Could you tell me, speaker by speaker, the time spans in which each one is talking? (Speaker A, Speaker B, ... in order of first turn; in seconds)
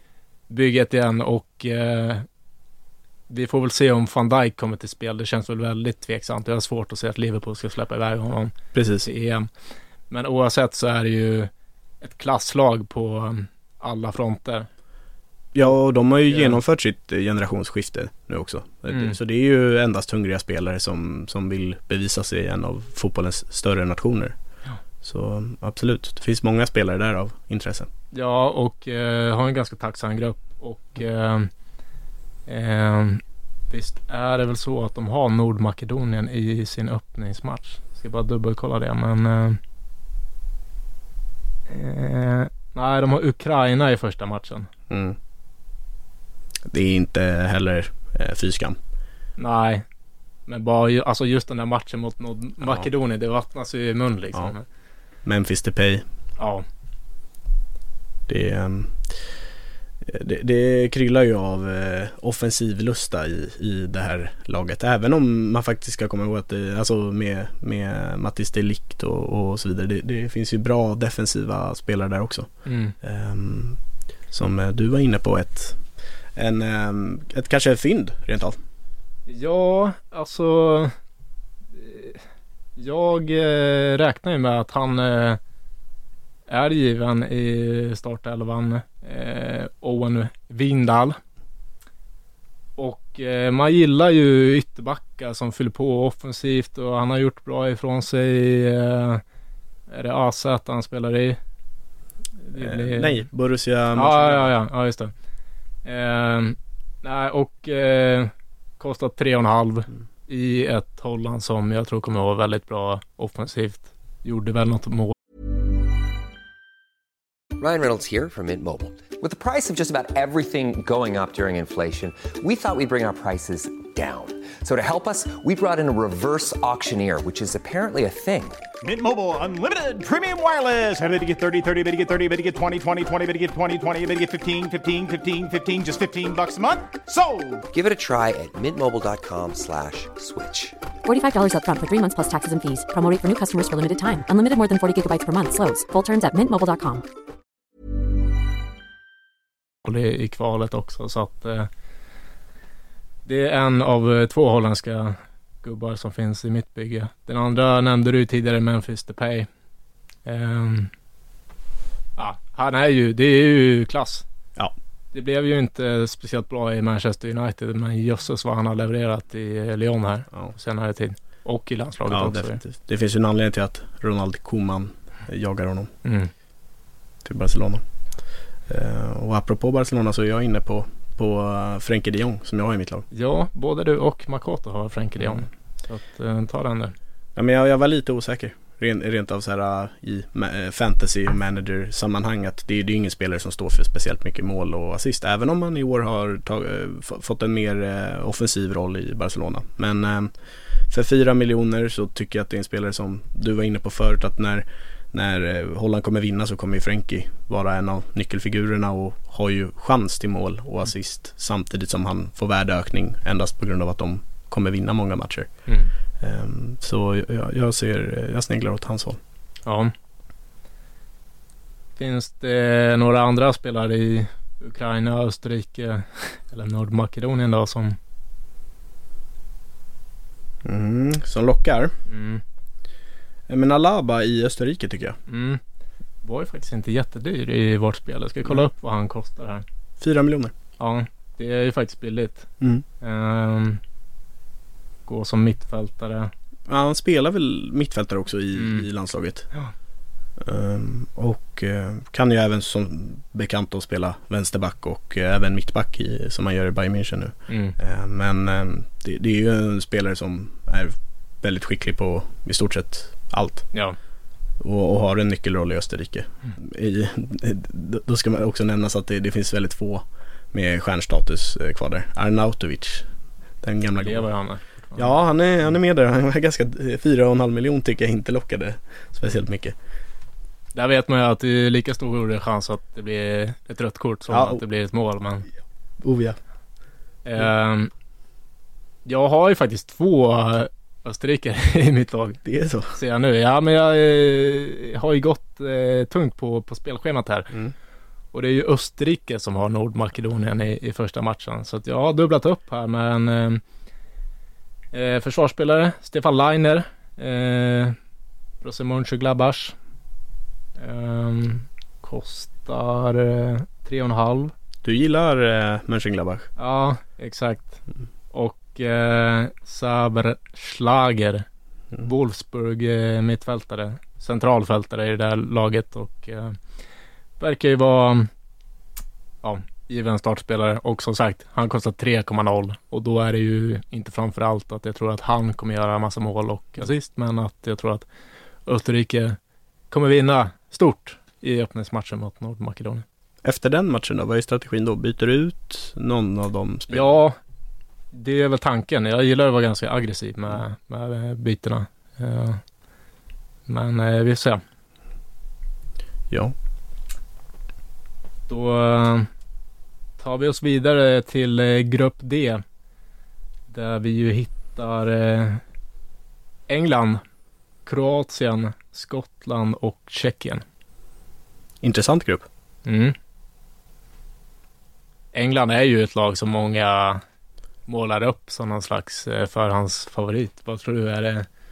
Speaker A: 0.5-2.2, 3.3-9.5, 10.1-11.5, 12.0-14.7, 16.3-16.6, 18.9-19.1, 28.1-31.5, 32.5-39.6, 41.7-44.7, 49.4-49.8, 50.5-54.6, 56.4-56.6, 72.6-72.9, 79.3-80.9, 81.7-82.2, 82.8-85.4, 86.5-91.2, 92.8-99.2, 99.9-101.4, 102.4-103.3, 103.9-105.1, 105.8-115.1, 149.8-151.7, 153.2-159.5, 160.2-160.9, 162.2-164.2, 165.1-172.6, 176.0-176.3, 183.1-186.9, 215.7-215.9, 219.7-219.9, 222.0-228.0, 232.1-232.4, 235.3-235.6, 236.2-239.6, 240.8-242.5, 243.0-243.8, 245.1-246.3, 248.6-248.8, 257.5-257.7, 274.0-275.1, 280.7-285.5, 287.2-287.9, 289.1-292.4, 292.9-297.5, 298.3-303.6, 304.9-308.0, 308.6-309.8, 310.8-314.5, 316.6-321.4, 322.0-326.6, 327.4-328.3, 329.4-338.1, 338.6-339.4, 339.9-343.0, 346.9-347.4, 348.1-352.6, 353.7-354.6, 358.5-359.3, 360.2-362.6, 363.7-365.6, 366.7-367.2, 367.8-370.6, 372.9-373.1, 375.3-377.2, 377.9-381.5
Speaker B: 8.7-9.1, 15.5-24.4, 25.0-27.9, 44.9-45.2, 46.7-48.8, 55.2-56.0, 58.3-59.2, 60.0-73.8, 74.3-75.8, 76.3-78.6, 102.6-104.5, 172.1-175.9, 177.2-177.8, 178.7-183.1, 187.3-200.3, 200.9-215.6, 216.2-219.2, 230.6-231.9, 233.5-235.2, 240.0-240.5, 242.6-242.8, 246.7-249.5, 250.4-263.7, 264.6-273.1, 273.6-274.3, 274.9-279.8, 284.3-284.6, 286.0-286.4, 292.4-292.9, 314.8-316.5, 343.4-347.1, 356.3-356.5, 371.8-372.5
Speaker C: 117.6-128.6, 137.7-140.8
Speaker D: 128.8-137.6
Speaker E: 141.0-147.0